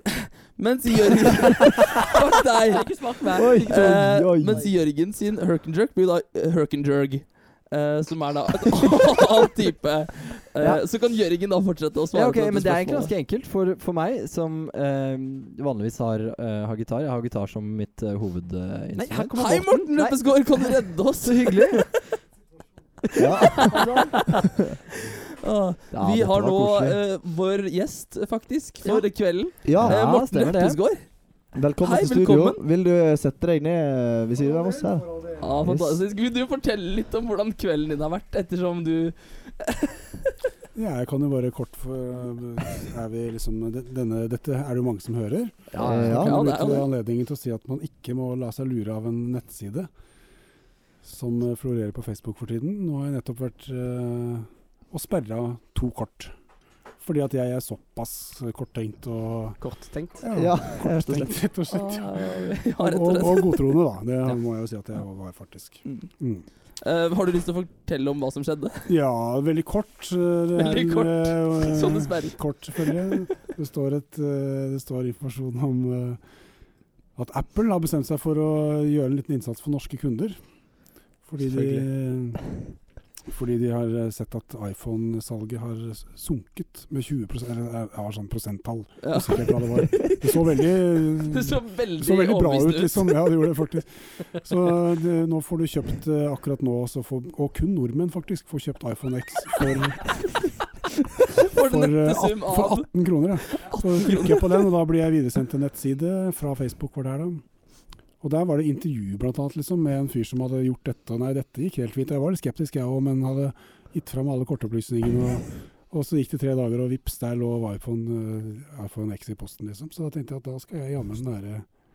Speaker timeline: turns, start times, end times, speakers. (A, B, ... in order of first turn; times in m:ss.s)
0:00.5-0:13.1 A
0:02.6-0:04.6 B
0:03.3-0:04.7 C
0:10.6-0:10.9 D
0:12.1-0:19.4 D
0:19.0-0:20.8 B
0:19.4-0:21.6 A
0:21.2-0:21.8 D
0:23.2-0:23.9 B
0:23.2-0:24.4 C
0:25.4-0:32.6 A
0:26.0-0:26.3 D
0:26.0-0:27.0 C
0:29.6-0:30.2 C
0:29.8-0:30.8 D
0:31.5-0:36.0 C
0:35.4-0:40.1 A
0:40.8-0:49.9 E
0:45.7-0:46.3 B
0:45.7-0:46.5 C
0:46.1-0:46.9 A
0:51.0-0:56.3 E
0:57.0-0:59.6 E
0:59.6-1:00.2 B
1:00.2-1:06.5 E
1:00.3-1:01.4 C
1:01.7-1:03.7 A
1:05.8-1:09.0 A
1:08.9-1:16.2 E
1:10.6-1:13.4 A
1:17.2-1:20.4 E
1:21.2-1:22.6 E
1:21.4-1:21.9 A
1:23.2-1:40.2 E
1:29.0-1:30.2 A
1:31.2-1:33.2 A
1:41.4-1:44.6 A
1:41.6-1:47.4 E
1:48.2-2:01.7 E